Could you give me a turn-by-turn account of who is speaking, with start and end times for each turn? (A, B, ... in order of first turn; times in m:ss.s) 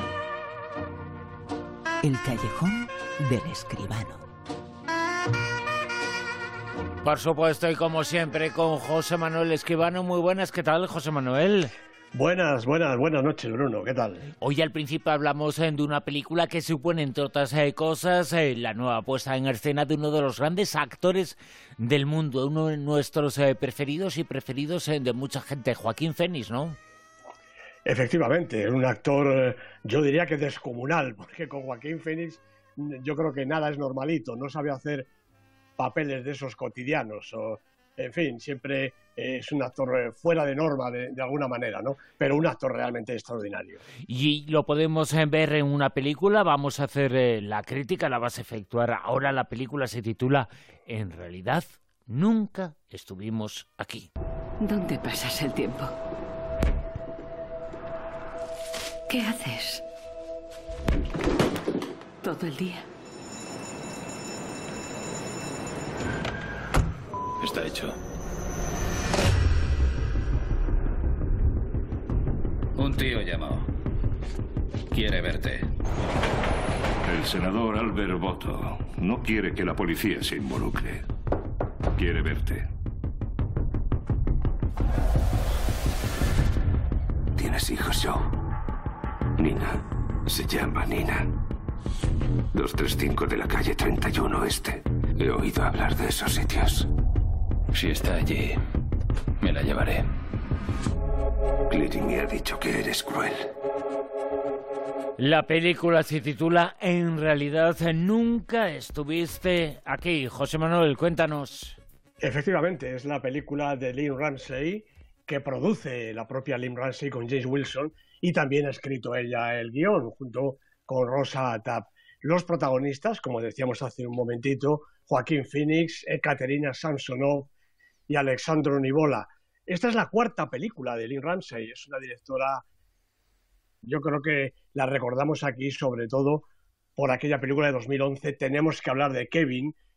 0:02.0-0:04.2 A
0:07.0-0:11.7 B
0:12.1-0:14.3 C
0:14.4-0:26.8 B
0:27.9-0:35.1 C
0:35.8-0:43.8 C
0:44.1-0:54.1 B
0:54.6-0:56.0 D
0:59.1-0:59.8 D
1:02.2-1:02.9 D
1:07.4-1:08.0 E
1:12.8-1:13.7 E
1:14.9-1:15.6 E
1:17.1-1:21.0 F
1:22.0-1:22.6 F
1:27.4-1:28.3 G
1:29.4-1:31.3 G
1:32.5-1:36.9 G
1:37.7-1:38.6 E
1:39.4-1:40.1 E
1:41.7-1:43.4 G
1:45.2-1:51.8 B
1:52.2-2:07.5 C
2:08.1-2:12.6 C
2:13.8-2:16.4 C
2:17.0-2:19.8 C